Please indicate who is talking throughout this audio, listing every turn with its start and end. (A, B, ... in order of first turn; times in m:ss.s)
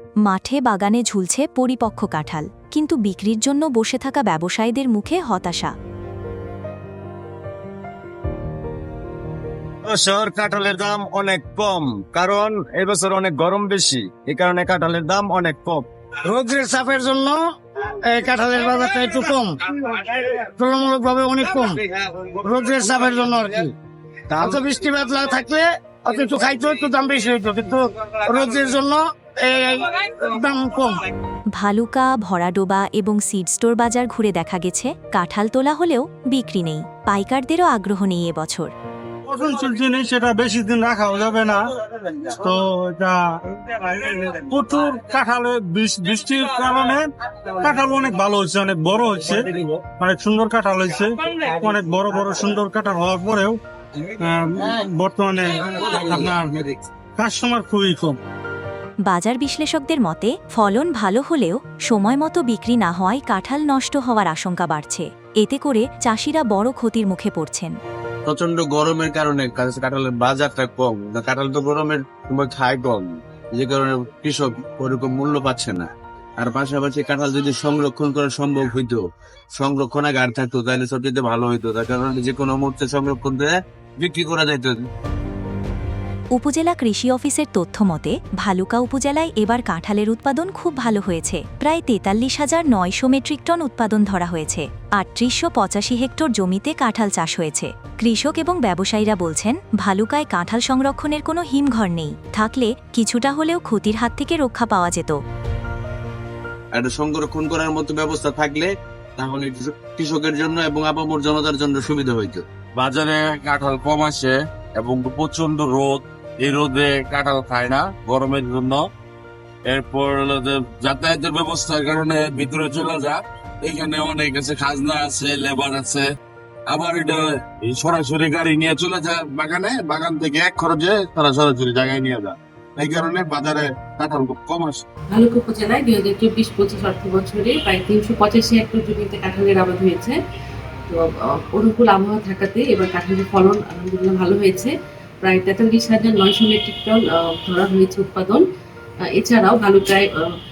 0:00.2-0:05.7 A
0:09.8-0:15.8 B
0:16.2-0:23.7 C
0:24.3-0:31.0 C
0:31.6-0:38.7 A
0:39.2-0:58.2 D
0:59.0-1:07.8 A
1:08.2-1:19.0 E
1:19.6-1:24.8 E
1:26.3-1:45.2 A
1:46.7-1:52.4 E
1:52.8-1:58.9 F
1:59.6-2:06.1 F
2:06.7-2:14.8 F
2:15.1-2:20.2 G
2:20.9-2:24.7 G
2:25.2-2:28.4 G
2:29.2-2:30.1 G